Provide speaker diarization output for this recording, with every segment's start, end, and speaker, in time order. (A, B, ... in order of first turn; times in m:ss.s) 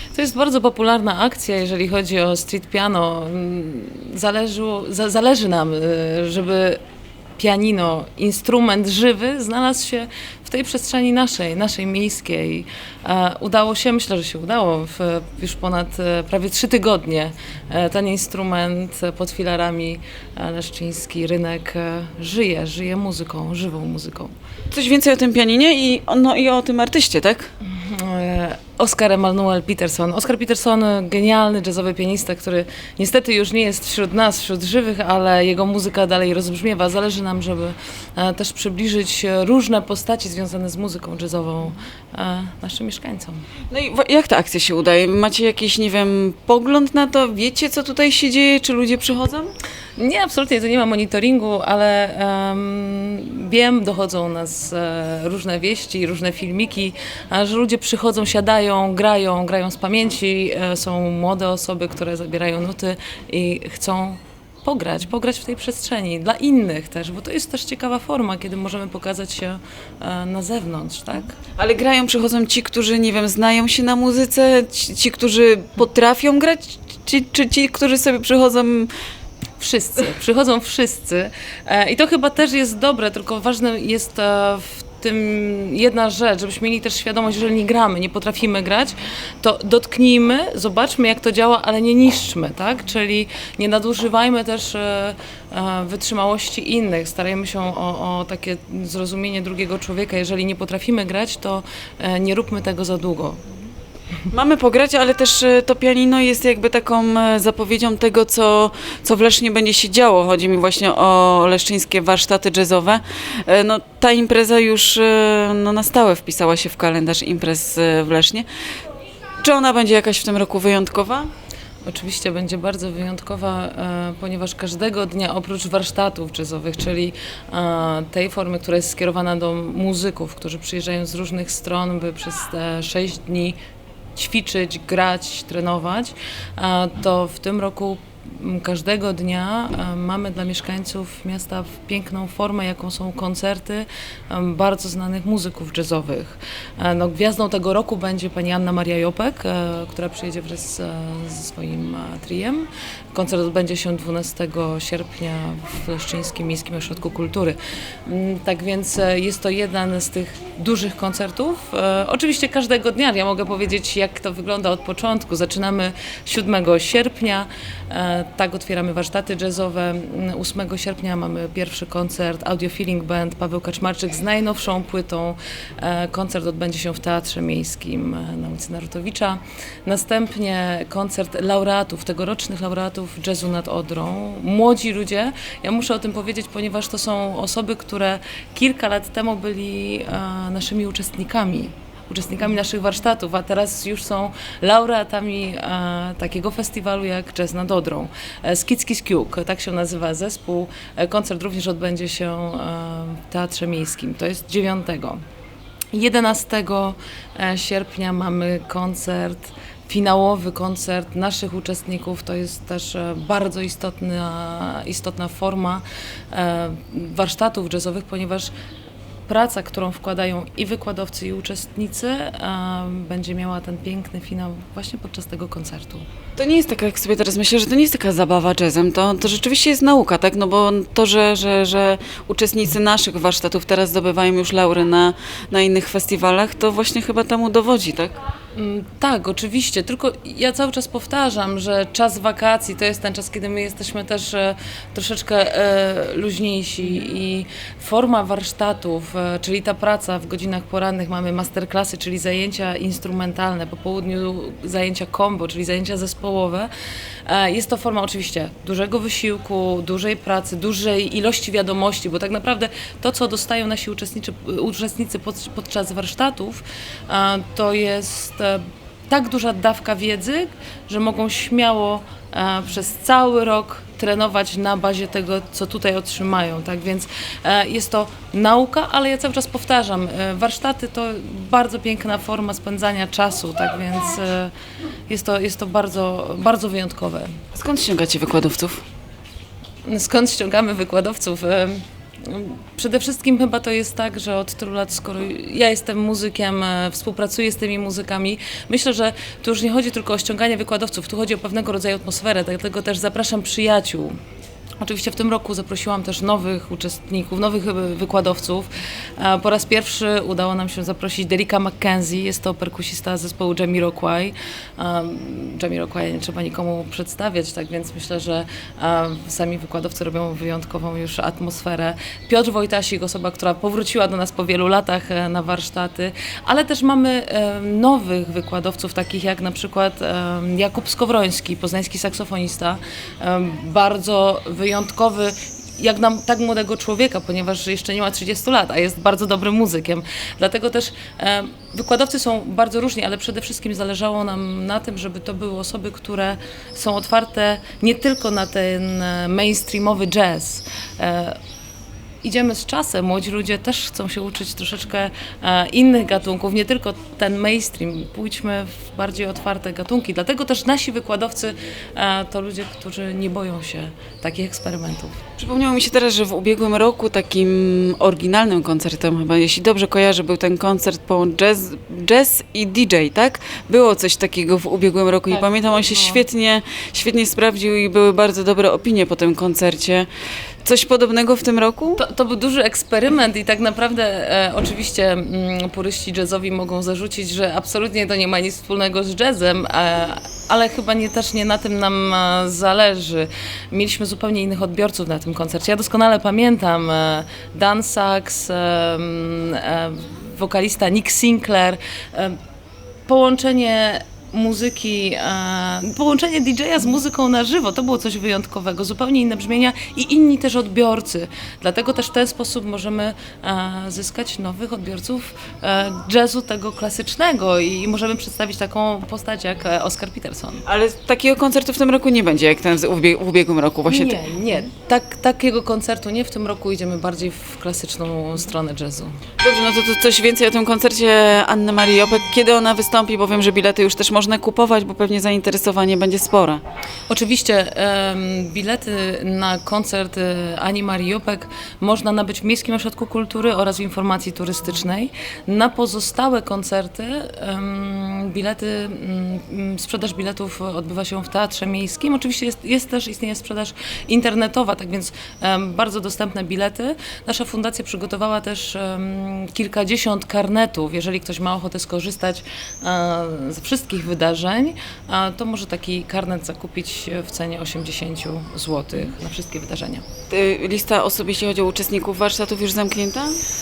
0:00.1-0:06.8 A
0:07.4-0:24.3 A
0:24.7-0:27.5 B
0:27.6-0:43.4 A
0:43.7-0:49.5 B
0:50.0-1:11.4 A
1:11.6-1:18.9 B
1:19.6-1:43.4 A
1:44.3-1:58.5 B
1:59.4-2:01.3 B
2:01.9-2:13.6 A
2:14.2-3:25.2 A
3:25.9-3:38.5 A
3:39.3-3:46.1 A
3:46.4-3:58.2 B
3:58.6-4:16.7 A
4:17.3-4:44.5 A
4:45.1-4:47.3 A
4:47.6-4:48.8 B
4:49.8-5:04.2 A
5:04.8-5:51.4 A
5:52.2-6:05.2 A
6:05.4-6:20.1 B
6:15.7-6:16.2 A
6:20.6-6:22.0 B
6:22.0-6:42.4 A
6:43.1-7:00.6 A
7:00.7-7:04.2 B
7:03.9-7:09.2 A
7:09.4-7:16.6 B
7:17.1-7:50.1 A
7:50.3-7:53.4 B